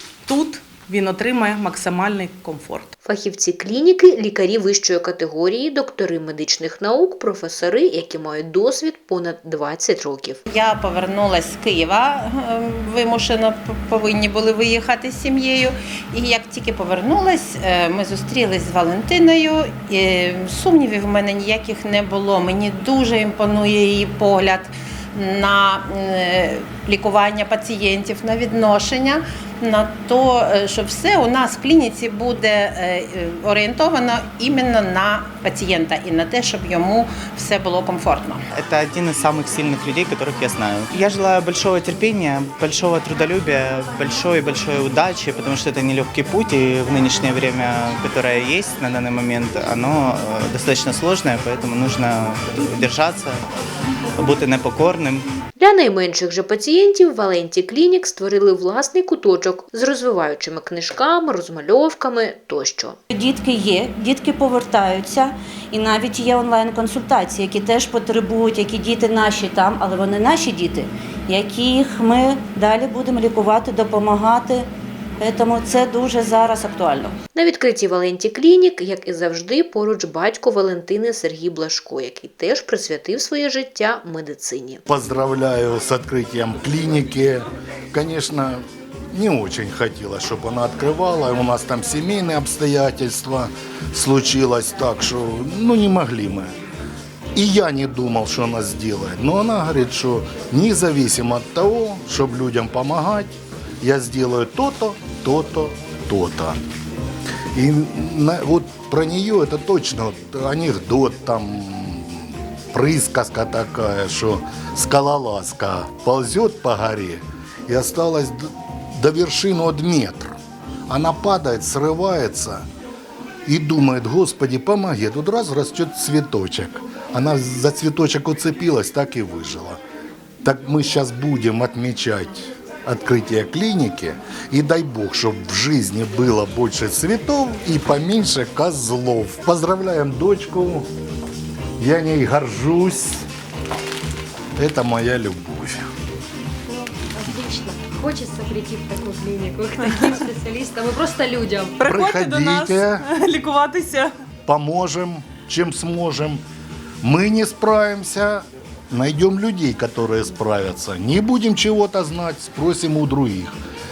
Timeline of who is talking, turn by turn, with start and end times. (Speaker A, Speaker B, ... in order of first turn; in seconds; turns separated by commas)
Speaker A: 0.3-2.9, Speaker B: 3.0-10.4, Speaker C: 10.5-38.4, Speaker D: 38.5-53.4, Speaker D: 54.2-55.2, Speaker B: 55.6-63.0, Speaker E: 63.1-74.7, Speaker E: 75.2-77.1, Speaker B: 77.3-84.8, Speaker F: 84.9-96.5, Speaker F: 97.3-106.6, Speaker F: 107.5-120.3, Speaker F: 120.9-122.6, Speaker F: 123.5-129.8, Speaker F: 130.4-140.9, Speaker F: 141.8-143.2, Speaker F: 144.6-145.8, Speaker G: 146.7-151.8, Speaker A: 149.8-150.2, Speaker A: 151.8-154.1, Speaker F: 151.8-153.0, Speaker F: 154.5-156.4, Speaker F: 157.0-163.6